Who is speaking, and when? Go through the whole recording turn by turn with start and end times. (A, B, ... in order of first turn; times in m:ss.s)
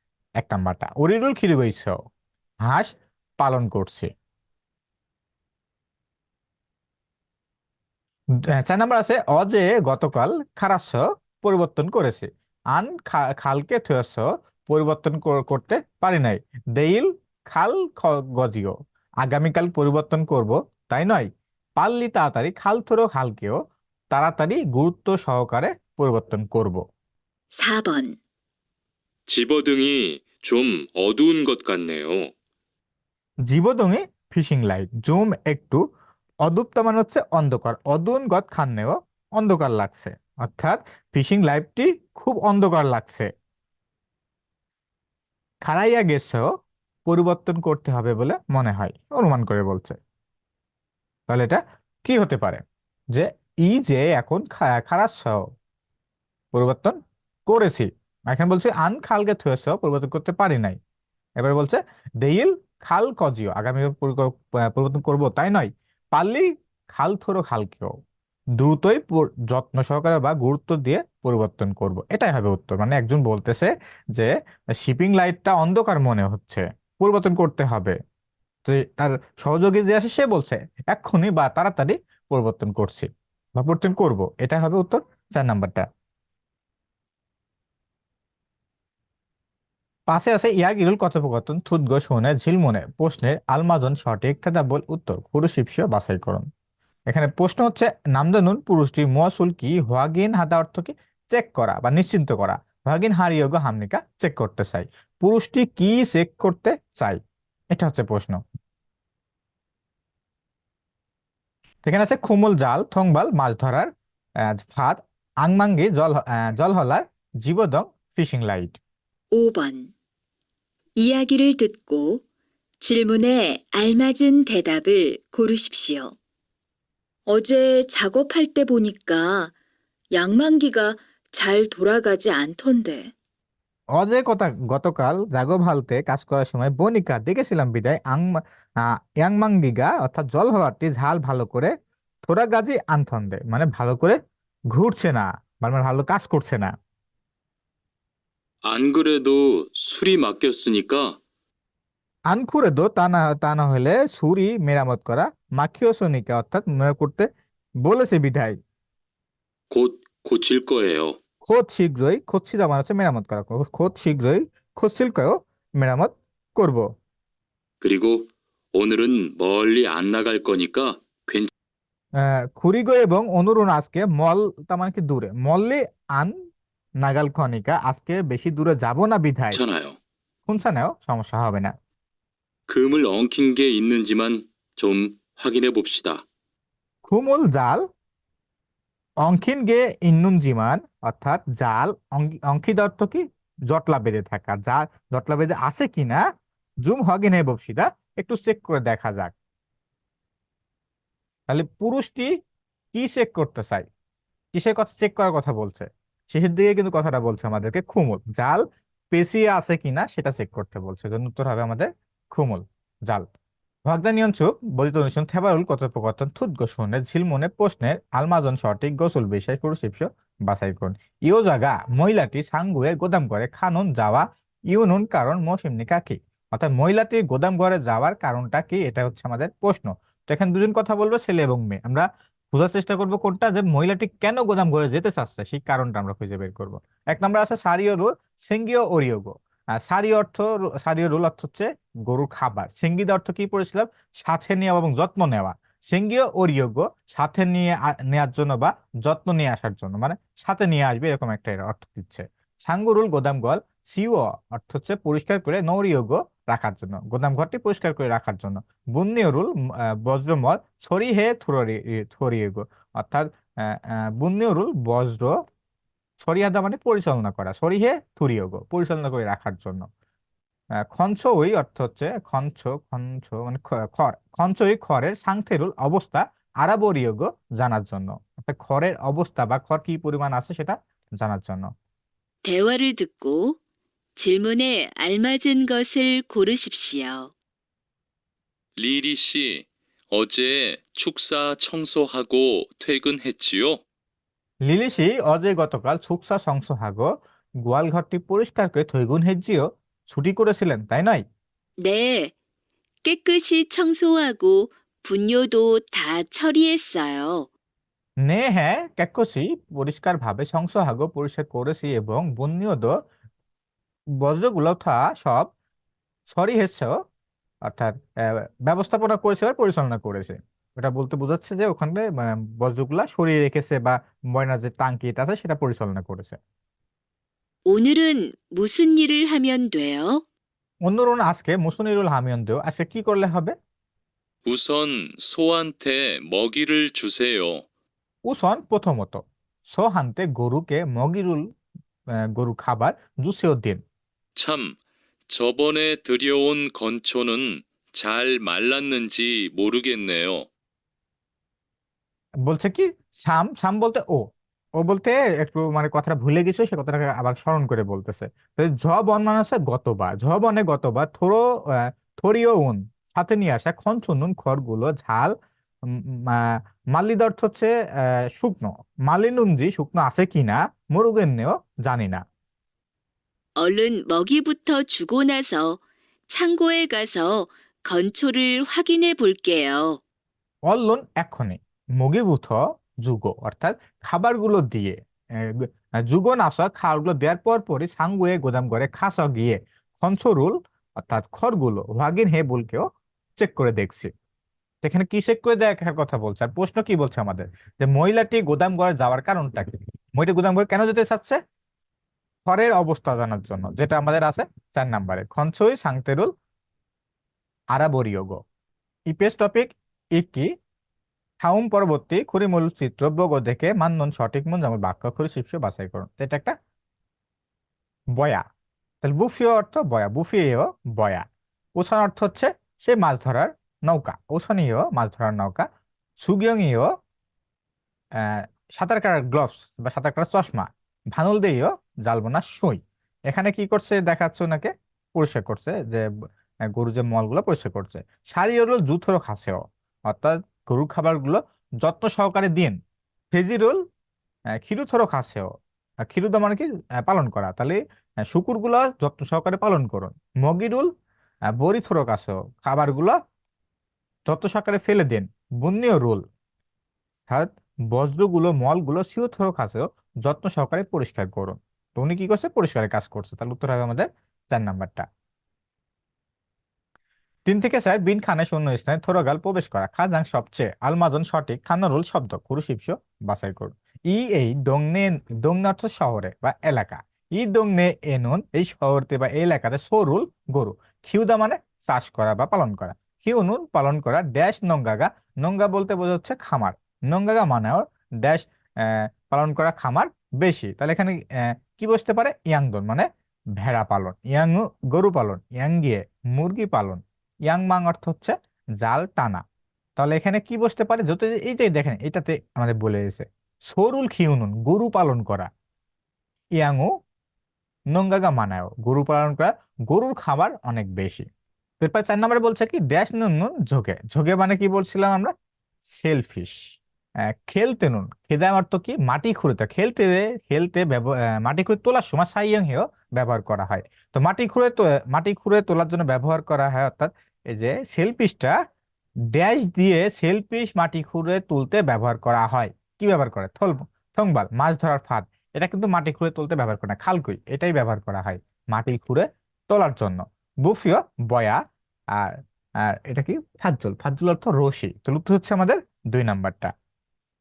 0:00.4-0:02.0 A
0:02.6-0:04.1 A
0:08.5-0:23.6 A
0:24.1-0:26.8 A
0:27.5-0:28.2 B
0:29.3-0:32.3 C
0:33.5-0:35.8 A
0:36.4-0:43.3 A
0:45.6-0:46.5 A
0:47.1-0:50.0 A
0:51.3-0:55.5 A
0:56.5-1:00.8 A
1:01.4-1:08.0 A
1:08.6-1:18.0 A
1:18.7-1:25.9 A
1:30.1-1:36.5 A
1:37.1-1:47.2 A
1:47.7-1:48.4 A
1:51.8-1:53.9 A
1:54.4-1:58.8 A
1:59.3-1:59.9 B
2:01.0-2:02.2 B
2:02.8-2:06.1 B
2:07.3-2:09.5 B
2:10.1-2:13.1 B
2:14.0-2:21.7 A
2:22.2-2:24.2 A
2:24.7-2:26.7 A
2:28.7-2:31.1 C
2:32.3-2:37.3 A
2:37.8-2:38.6 A
2:39.7-2:41.2 C
2:41.4-2:46.8 A
2:47.8-2:51.5 C
2:52.2-2:56.4 A
2:57.0-2:59.6 A
2:59.5-3:00.0 C
3:00.5-3:01.8 A
3:02.7-3:06.2 C
3:07.1-3:07.8 A
3:09.2-3:16.2 A
3:16.8-3:19.4 A
3:21.5-3:22.3 A
3:22.9-3:23.9 A
3:24.5-3:33.3 A
3:33.9-4:25.4 A
4:26.2-4:29.9 A
4:30.8-4:41.7 A
4:42.4-4:43.6 B
4:44.2-4:47.3 B
4:48.8-4:53.8 C
4:54.6-5:01.2 A
5:01.8-5:02.3 B
5:03.0-5:07.5 B
5:08.2-5:13.0 A
5:14.2-5:15.5 A
5:16.3-5:17.0 A
5:17.6-5:26.4 A
5:27.7-5:30.2 B
5:30.8-5:33.5 A
5:34.5-5:37.6 C
5:38.2-5:41.5 A
5:42.1-5:43.8 A
5:44.4-5:44.8 C
5:45.3-5:50.5 C
5:52.4-6:05.3 A
6:05.8-6:12.2 A
6:13.6-6:20.0 B
6:20.7-6:32.9 A
6:33.4-6:34.1 A
6:34.8-6:41.4 A
6:42.5-6:46.3 A
6:47.7-6:48.4 A
6:49.1-6:50.5 A
6:51.4-6:56.5 A
6:58.2-6:58.4 A
6:59.0-7:05.7 A
7:06.2-7:06.9 A
7:08.2-7:16.1 A
7:16.7-7:22.8 A
7:23.3-7:23.8 A
7:24.5-7:25.5 A
7:26.0-7:30.9 A
7:31.5-7:33.2 A
7:34.3-7:36.2 A
7:37.3-7:45.0 A
7:47.5-8:19.4 A
8:20.0-8:25.5 A
8:26.6-8:26.9 A
8:27.9-8:31.2 A
8:31.8-8:35.3 A
8:35.9-8:36.6 A
8:37.2-8:48.6 A
8:49.3-9:01.6 A
9:02.1-9:06.7 A